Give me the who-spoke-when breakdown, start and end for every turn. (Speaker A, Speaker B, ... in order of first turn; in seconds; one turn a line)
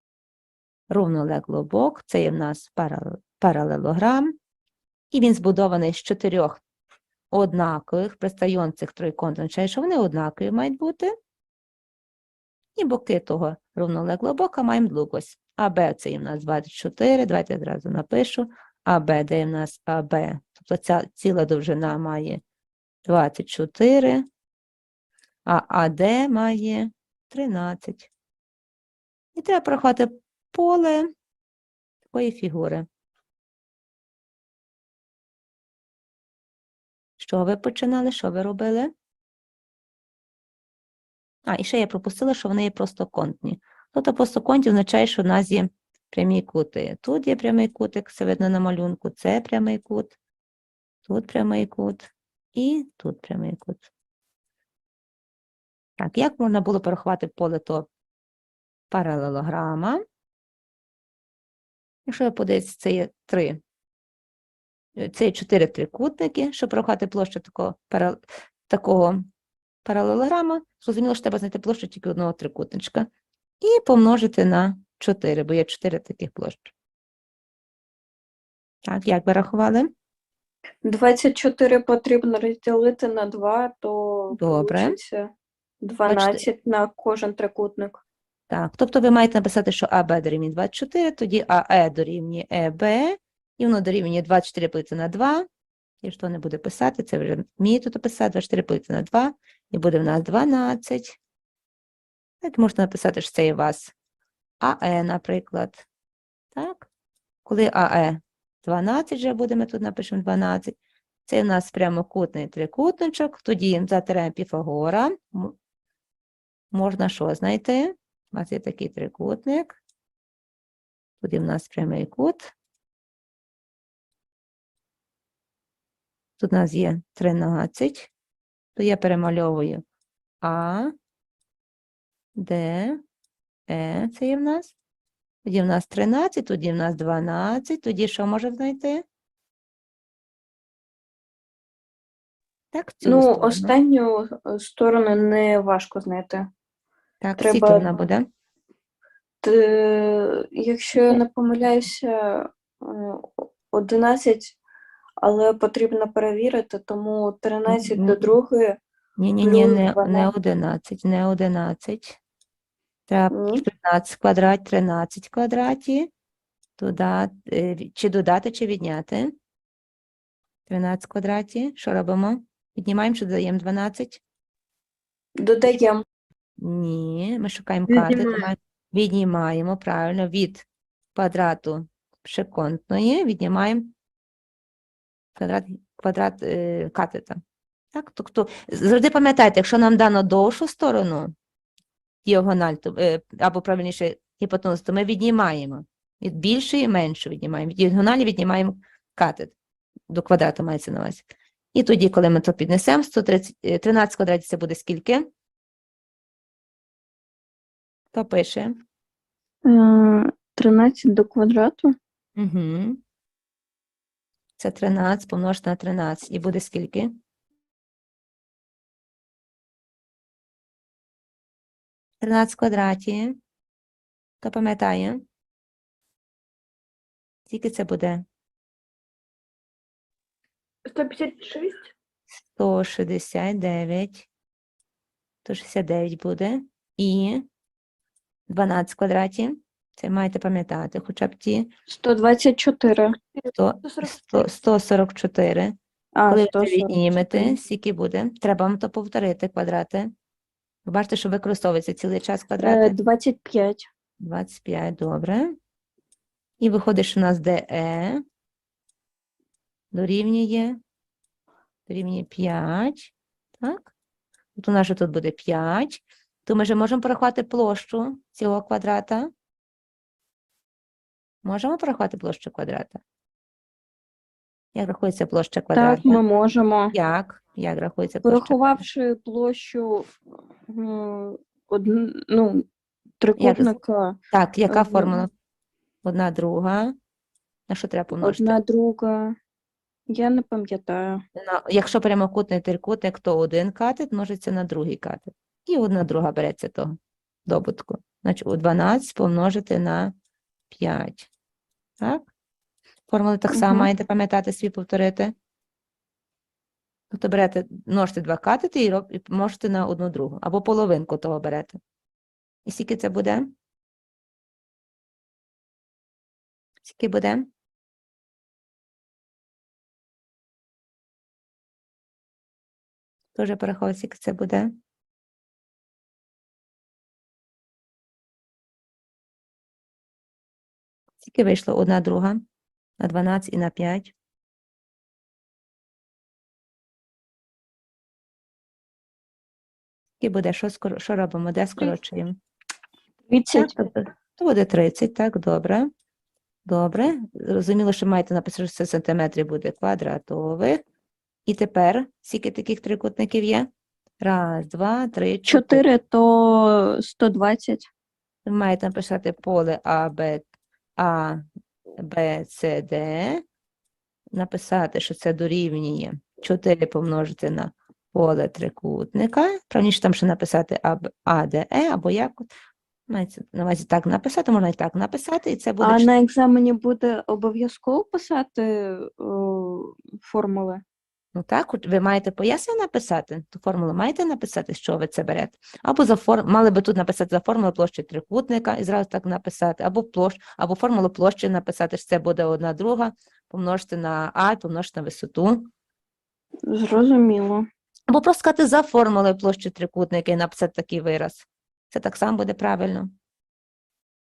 Speaker A: 0.9-4.3
Speaker A: 5.1-6.6
Speaker A: 7.3-11.1
Speaker A: 12.8-22.4
Speaker A: 23.0-24.2
Speaker A: 25.4-28.1
Speaker A: 29.4-31.1
Speaker A: 32.1-32.9
Speaker A: 37.2-38.9
Speaker A: 41.5-50.1
Speaker A: 51.0-53.9
Speaker A: 56.0-57.9
Speaker A: 58.9-60.0
Speaker A: 62.1-63.6
Speaker A: 65.0-69.2
Speaker A: 69.8-73.1
Speaker A: 73.6-76.7
Speaker A: 78.8-79.9
Speaker B: 80.8-88.0
Speaker A: 84.3-85.0
Speaker A: 86.0-86.4
Speaker A: 88.5-95.4
Speaker A: 96.0-101.2
Speaker A: 102.4-103.9
Speaker A: 104.6-105.9
Speaker A: 106.5-106.9
Speaker A: 107.4-115.5
Speaker A: 116.7-119.8
Speaker A: 121.2-122.5
Speaker A: 126.4-128.1
Speaker A: 128.8-129.8
Speaker A: 130.4-130.9
Speaker A: 132.3-133.0
Speaker A: 133.7-134.7
Speaker A: 135.4-139.0
Speaker A: 142.7-143.7
Speaker B: 143.0-146.5
Speaker A: 147.2-148.2
Speaker B: 147.4-147.9
Speaker B: 149.4-154.6
Speaker B: 155.2-158.8
Speaker A: 157.7-158.4
Speaker A: 159.2-162.2
Speaker B: 159.4-160.3
Speaker A: 163.1-166.1
Speaker B: 163.3-163.7
Speaker A: 166.8-169.3
Speaker A: 170.7-174.2
Speaker B: 175.4-176.0
Speaker A: 176.6-183.9
Speaker B: 177.9-178.5
Speaker A: 185.3-187.4
Speaker A: 187.9-191.3
Speaker A: 192.2-199.5
Speaker A: 200.1-205.3
Speaker A: 208.1-208.8
Speaker B: 209.6-211.9
Speaker A: 212.4-213.0
Speaker A: 214.6-217.1
Speaker A: 222.2-223.4
Speaker A: 224.4-225.2
Speaker A: 227.5-228.2
Speaker B: 230.8-231.9
Speaker A: 232.5-234.3
Speaker A: 235.4-237.4
Speaker A: 238.5-241.7
Speaker B: 241.9-243.2
Speaker A: 243.5-245.7
Speaker B: 243.8-244.5
Speaker B: 246.1-247.5
Speaker A: 246.3-250.1
Speaker A: 250.8-252.9
Speaker B: 252.6-253.9
Speaker A: 254.2-255.6
Speaker A: 256.6-258.2
Speaker A: 259.9-260.8
Speaker A: 261.9-263.9
Speaker A: 264.6-269.3
Speaker A: 271.4-273.0
Speaker A: 274.7-276.2
Speaker B: 275.7-276.9
Speaker A: 276.9-278.8
Speaker B: 278.2-280.1
Speaker B: 280.7-282.7
Speaker B: 283.2-285.2
Speaker A: 283.4-283.8
Speaker A: 284.3-285.3
Speaker A: 286.0-286.9
Speaker A: 287.7-288.6
Speaker B: 288.2-289.4
Speaker B: 290.1-291.2
Speaker A: 291.4-300.1
Speaker A: 300.7-301.3
Speaker A: 302.0-302.3
Speaker A: 303.1-305.3
Speaker B: 303.5-303.9
Speaker A: 307.1-311.8
Speaker A: 312.6-313.5
Speaker A: 316.8-317.5
Speaker A: 323.3-324.7
Speaker A: 331.2-332.4
Speaker A: 333.0-334.1
Speaker A: 340.2-342.4
Speaker B: 343.3-343.9
Speaker A: 343.5-345.9
Speaker A: 346.6-350.8
Speaker A: 351.5-353.7
Speaker A: 354.2-355.8
Speaker B: 355.5-357.9
Speaker A: 358.4-360.4
Speaker A: 361.0-361.4
Speaker A: 362.0-363.4
Speaker A: 364.3-372.5
Speaker A: 373.1-376.1
Speaker B: 375.8-380.8
Speaker A: 381.3-395.7
Speaker B: 396.7-397.6
Speaker A: 398.1-403.1